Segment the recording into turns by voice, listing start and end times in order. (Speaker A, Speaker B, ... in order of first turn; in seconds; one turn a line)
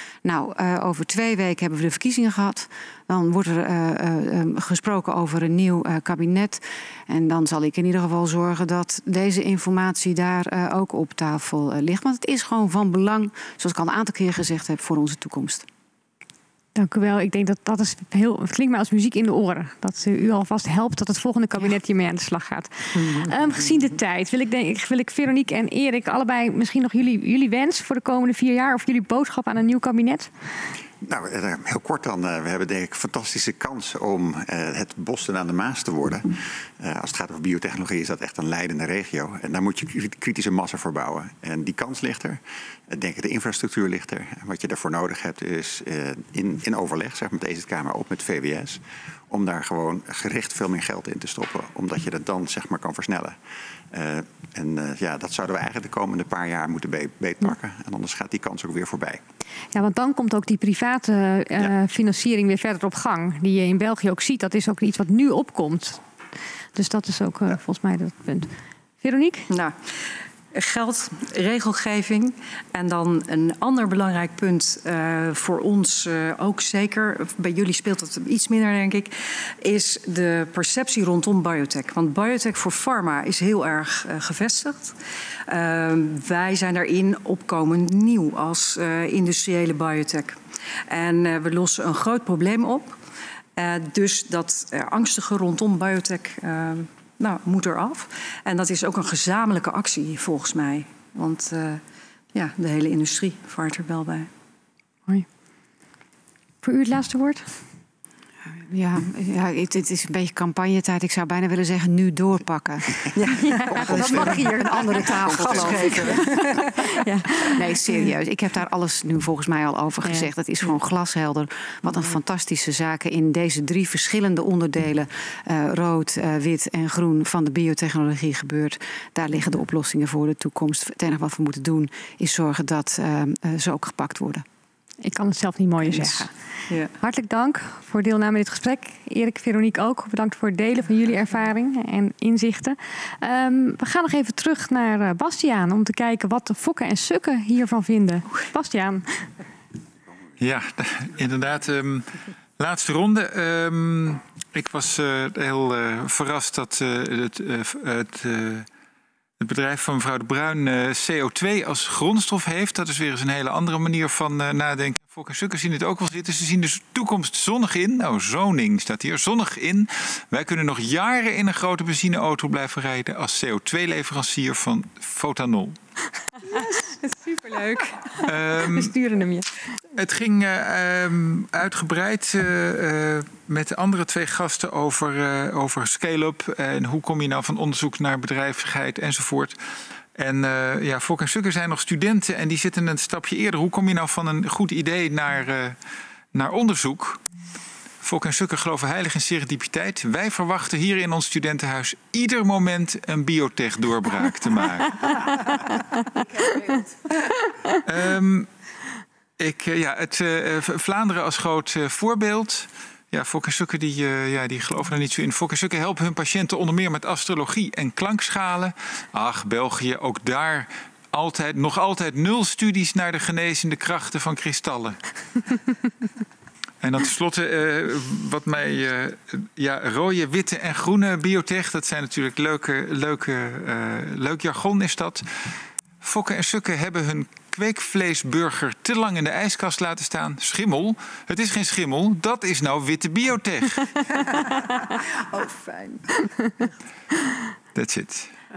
Speaker A: 0.2-15.7
Speaker B: 16.8-30.3
Speaker C: 31.0-53.4
Speaker C: 53.9-59.2
Speaker B: 59.7-66.0
Speaker B: 66.8-69.5
Speaker D: 69.5-69.8
Speaker D: 70.5-85.0
Speaker D: 85.5-93.0
Speaker D: 93.6-101.8
Speaker D: 102.3-104.3
Speaker B: 106.6-107.5
Speaker A: 108.5-113.1
Speaker D: 113.2-114.0
Speaker B: 113.4-116.3
Speaker C: 113.7-114.7
Speaker A: 113.8-116.4
Speaker C: 115.2-116.3
Speaker D: 115.3-116.7
Speaker B: 116.9-118.1
Speaker A: 117.5-134.4
Speaker B: 120.0-120.3
Speaker B: 135.0-136.3
Speaker D: 135.9-136.9
Speaker B: 136.9-149.3
Speaker E: 150.4-158.7
Speaker E: 159.4-175.8
Speaker B: 176.4-179.7
Speaker E: 178.2-178.9
Speaker E: 179.9-189.6
Speaker E: 190.1-195.8
Speaker E: 196.3-197.2
Speaker E: 198.0-205.6
Speaker E: 207.8-208.5
Speaker E: 209.4-225.0
Speaker E: 226.8-243.9
Speaker D: 245.3-246.1
Speaker B: 246.2-246.7
Speaker E: 247.7-248.3